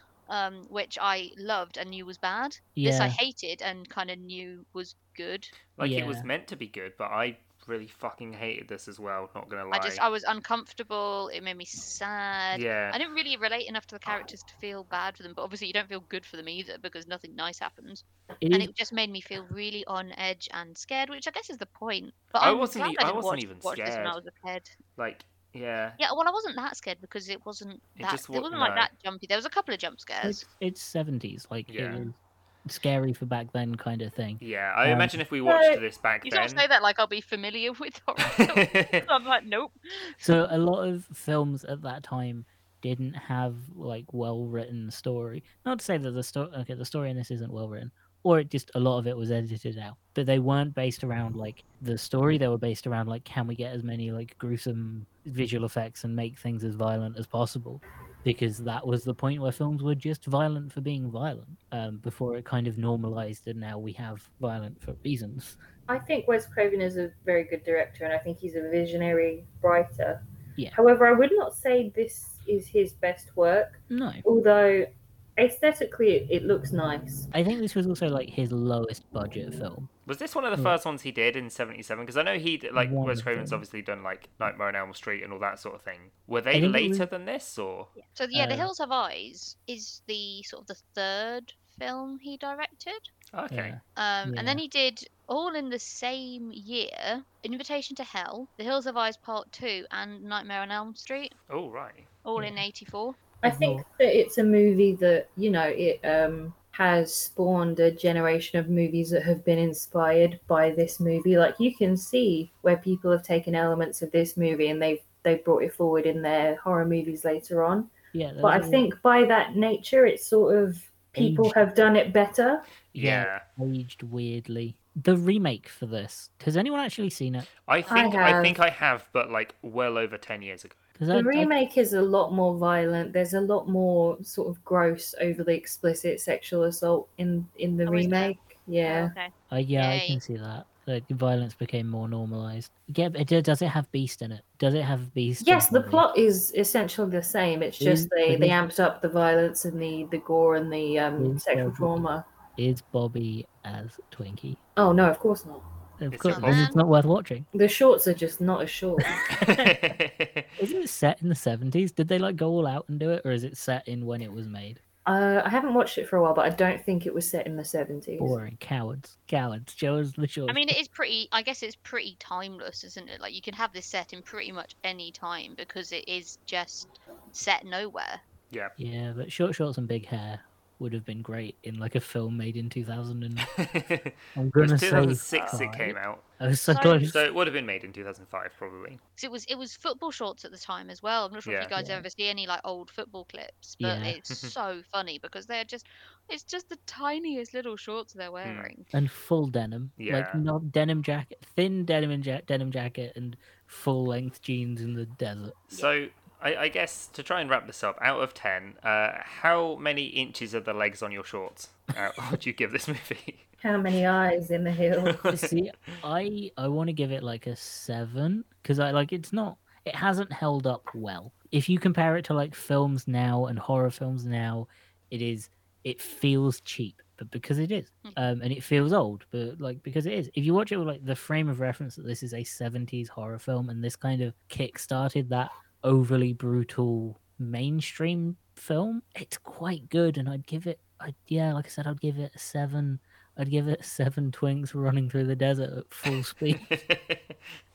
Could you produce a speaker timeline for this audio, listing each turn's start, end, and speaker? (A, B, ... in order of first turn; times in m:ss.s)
0:00.3-0:05.6 A
0:02.8-0:03.2 B
0:05.7-0:10.0 C
0:05.8-0:06.3 B
0:09.7-0:24.7 A
0:12.5-0:13.0 C
0:18.4-0:18.7 B
0:22.4-0:24.2 C
0:25.0-0:26.0 C
0:26.0-0:30.4 A
0:28.0-0:28.9 C
0:30.2-0:35.2 B
0:31.7-0:32.0 C
0:34.4-0:36.6 C
0:35.4-0:35.8 D
0:36.2-0:40.2 A
0:38.3-0:39.0 C
0:40.2-1:05.6 B
1:05.9-1:10.2 D
1:10.7-1:17.3 D
1:13.9-1:14.2 B
1:17.3-1:19.9 B
1:20.1-1:27.9 C
1:22.8-1:23.6 B
1:26.5-1:27.1 B
1:28.0-1:33.1 A
1:28.3-1:28.7 B
1:33.3-1:33.8 C
1:33.5-1:34.6 B
1:34.0-1:41.3 A
1:41.5-1:42.1 C
1:42.2-1:43.2 A
1:42.4-1:42.6 B
1:43.4-1:57.9 D
1:43.4-1:43.8 B
1:58.1-1:58.9 B
1:58.4-2:02.7 D
2:01.1-2:01.6 B
2:02.9-2:03.4 C
2:02.9-2:07.5 B
2:07.7-2:10.8 C
2:07.9-2:08.1 A
2:07.9-2:08.6 D
2:11.0-2:11.5 B
2:11.1-2:19.1 D
2:17.8-2:20.2 A
2:19.5-2:26.0 B
2:25.4-2:32.2 D
2:27.8-2:28.6 B
2:31.2-2:31.9 B
2:32.6-2:34.6 B
2:34.8-2:35.6 D
2:36.0-2:37.5 B
2:36.1-2:36.7 C
2:36.3-2:36.8 A
2:37.5-2:39.2 D
2:39.2-2:39.7 B
2:39.3-2:40.5 C
2:40.6-2:44.8 B
2:45.0-2:48.4 D
2:48.2-2:50.8 B
2:50.5-2:58.2 A
2:58.8-3:03.5 B
3:03.5-3:06.2 C
3:04.3-3:07.2 B
3:04.9-3:05.6 A
3:06.7-3:07.2 A
3:07.1-3:09.0 C
3:09.2-3:18.9 A
3:11.4-3:11.7 C
3:11.7-3:12.1 B
3:13.8-3:14.2 B
3:14.3-3:14.5 C
3:18.4-3:18.7 C
3:18.9-3:25.6 B
3:20.0-3:20.4 C
3:25.7-3:33.4 C
3:33.6-3:35.2 D
3:35.1-3:35.5 C
3:35.3-4:06.6 B
4:06.6-4:07.4 C